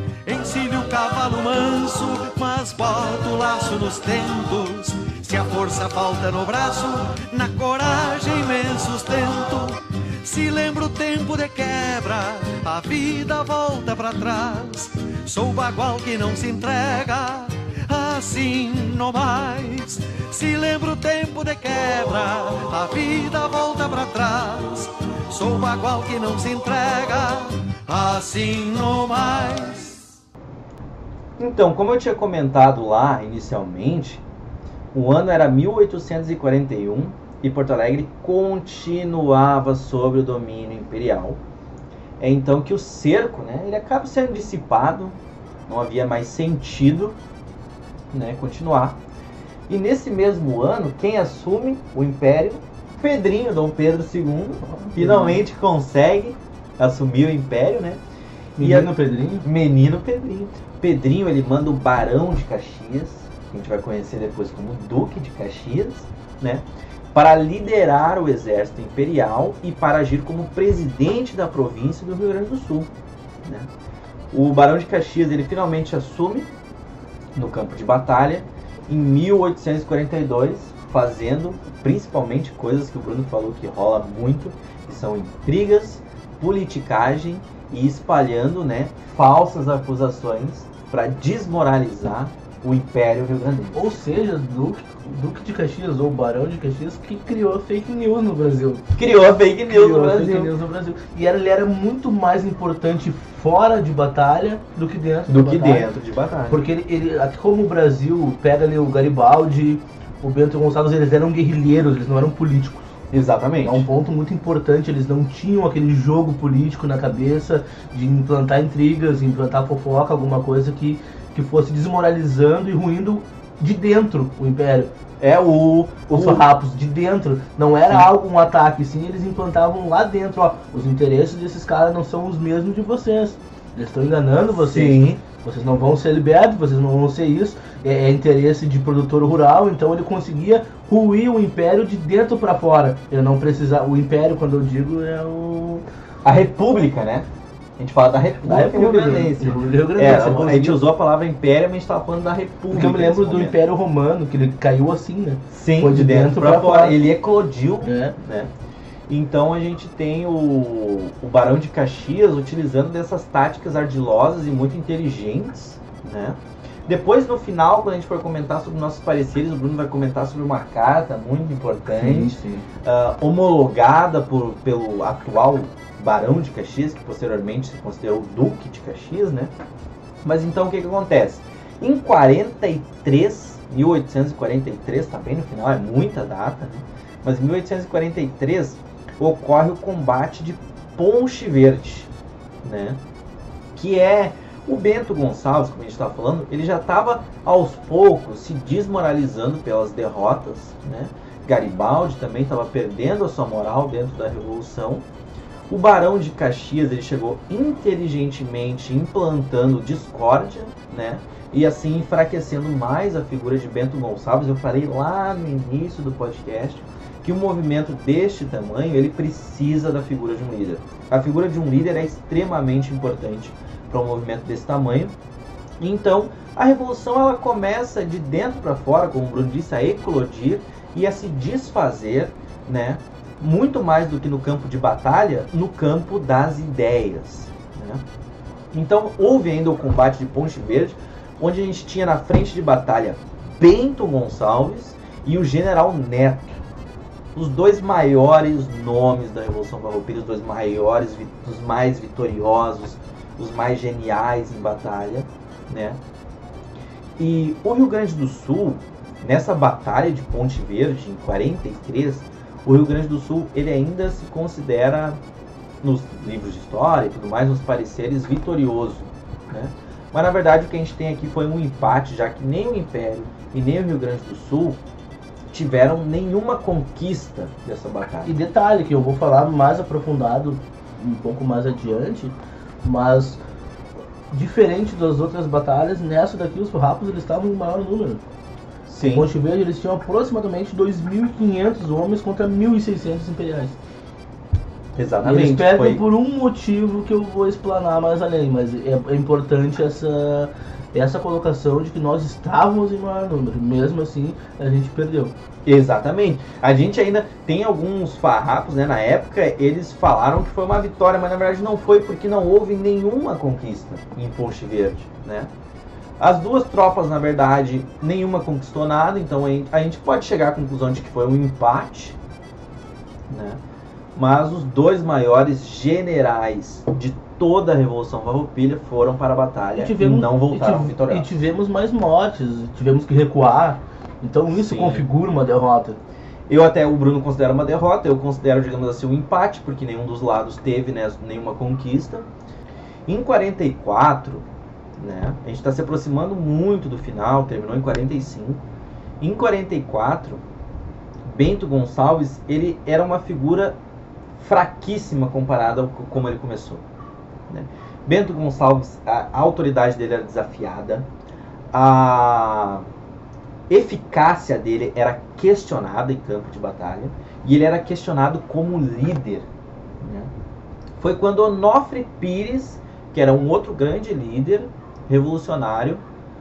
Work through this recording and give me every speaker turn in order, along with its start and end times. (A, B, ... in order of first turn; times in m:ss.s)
0:00.3-0:30.1 A
0:31.4-0:34.2 B
0:34.9-0:41.4 B
0:42.2-0:45.2 B
0:45.7-0:47.2 B
0:48.1-0:49.0 B
0:49.7-0:58.0 B
0:54.7-0:55.4 C
0:58.6-0:59.4 C
0:58.6-1:12.9 B
1:14.3-1:16.5 B
1:17.4-1:33.9 B
1:33.7-1:45.9 C
1:39.0-1:40.5 B
1:45.3-1:46.6 B
1:46.5-1:52.9 C
1:53.1-1:53.9 B
1:53.6-2:04.9 C
2:05.2-2:06.4 B
2:06.1-2:25.9 C
2:14.6-2:15.2 B
2:26.2-2:27.3 B
2:27.8-2:33.6 B
2:28.4-2:30.8 C
2:32.7-2:37.0 C
2:35.5-2:38.5 B
2:37.8-2:38.2 C
2:39.1-2:59.5 B
2:51.9-2:52.7 C
3:00.2-3:12.1 B
3:12.6-3:13.0 B
3:13.8-3:25.0 B
3:25.7-3:45.1 B
3:45.8-3:58.0 B
3:58.7-4:06.6 B
4:07.4-4:16.0 B
4:17.2-4:25.2 B
4:25.8-4:34.8 B
4:35.5-4:38.4 B
4:38.2-4:43.4 C
4:44.3-4:48.2 C
4:48.9-4:49.3 B
4:49.1-4:53.8 C
4:55.0-4:56.0 B
4:55.2-5:05.3 C
5:05.6-5:15.5 B
5:16.2-5:22.2 B
5:23.3-5:23.6 B
5:24.2-5:31.4 B
5:29.8-5:36.0 C
5:34.5-5:35.1 B
5:36.5-5:42.3 B
5:43.1-5:44.5 B
5:45.0-5:48.6 B
5:49.2-5:50.4 B
5:51.2-5:53.8 B
5:54.4-5:56.8 B
5:57.5-6:01.1 B
6:01.7-6:02.8 B
6:03.7-6:09.5 B
6:10.0-6:10.3 B
6:11.0-6:16.0 B